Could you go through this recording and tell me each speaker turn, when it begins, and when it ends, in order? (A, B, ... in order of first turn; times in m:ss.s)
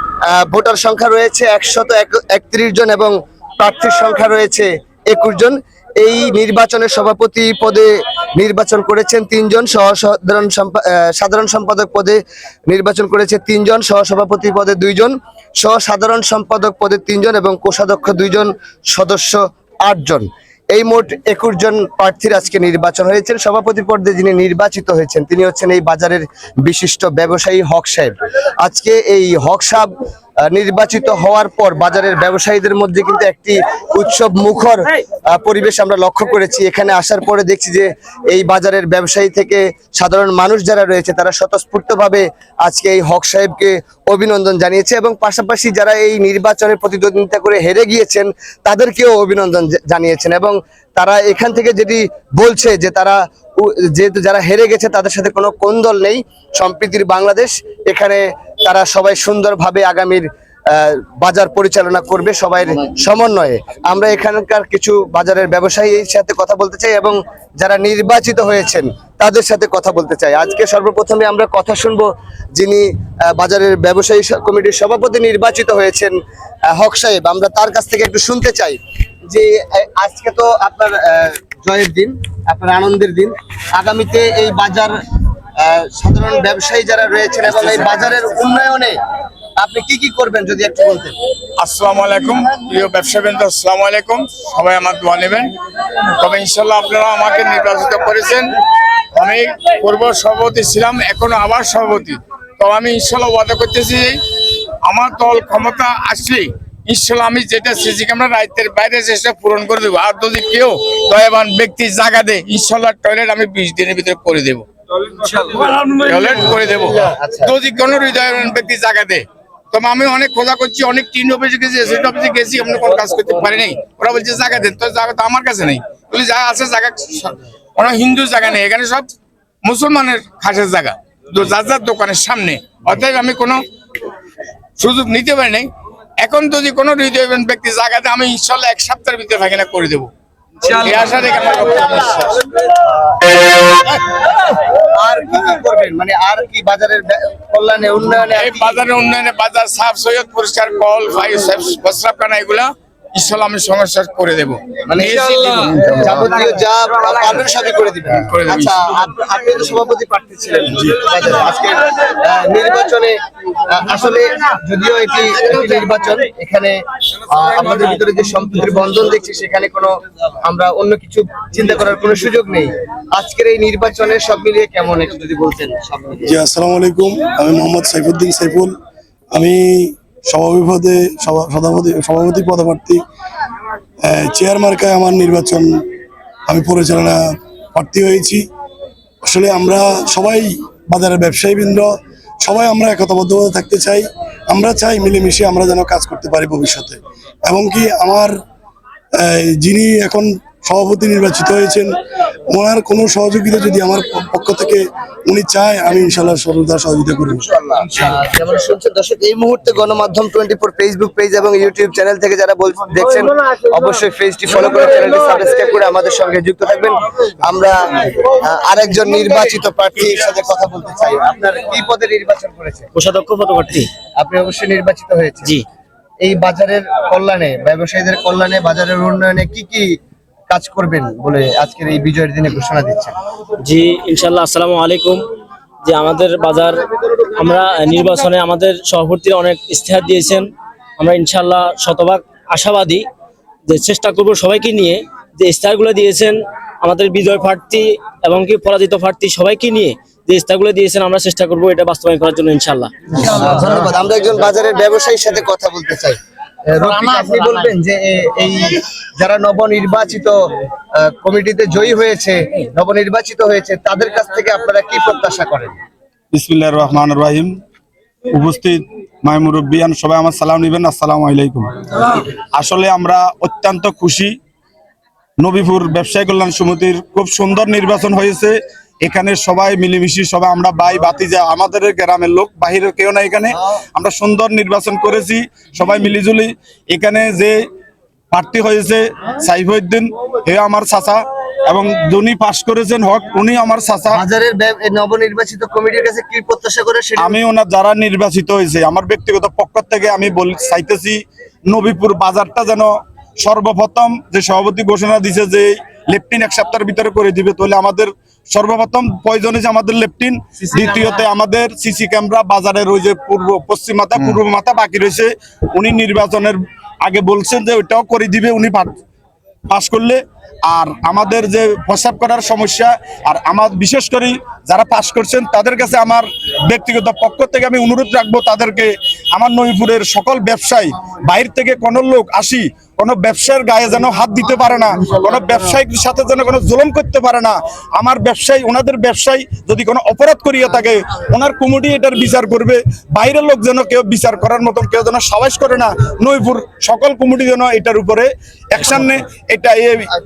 0:00.3-0:29.9 A
0:30.5-1:16.1 A
1:16.7-1:18.8 A
1:19.3-1:25.0 A
1:25.6-1:29.0 A
1:29.6-1:31.1 A
1:31.6-1:35.5 B
1:36.2-1:38.6 B
1:39.1-1:44.2 B
1:44.8-2:09.1 B
1:57.0-1:57.6 A
2:09.6-2:13.6 B
2:14.8-2:15.7 B
2:16.2-2:20.1 B
2:20.6-2:22.6 B
2:23.1-2:23.6 A
2:24.3-2:28.8 A
2:28.3-2:35.8 B
2:34.9-2:35.2 A
2:35.8-2:43.1 A
2:38.2-2:38.8 B
2:43.7-2:46.8 A
2:47.3-2:56.4 A
2:56.3-2:58.7 C
2:59.3-3:03.0 C
3:04.0-3:05.8 C
3:06.5-3:08.4 C
3:09.2-3:11.9 C
3:12.4-3:18.3 C
3:19.2-3:21.9 C
3:22.5-3:27.4 C
3:27.5-3:42.9 A
3:42.9-3:43.9 D
3:44.2-3:45.6 A
3:46.2-3:49.9 A
3:50.5-3:53.1 A
3:53.6-3:55.2 D
3:55.8-4:00.4 D
4:01.0-4:03.0 D
4:03.7-4:13.1 D
4:13.1-4:16.2 A
4:16.7-4:20.4 A
4:21.0-4:25.8 A
4:26.3-4:27.5 E
4:28.3-4:34.3 E
4:35.4-4:47.6 E
4:48.3-4:54.2 E
4:54.1-4:57.4 A
4:57.2-5:19.0 E
5:19.7-5:50.1 E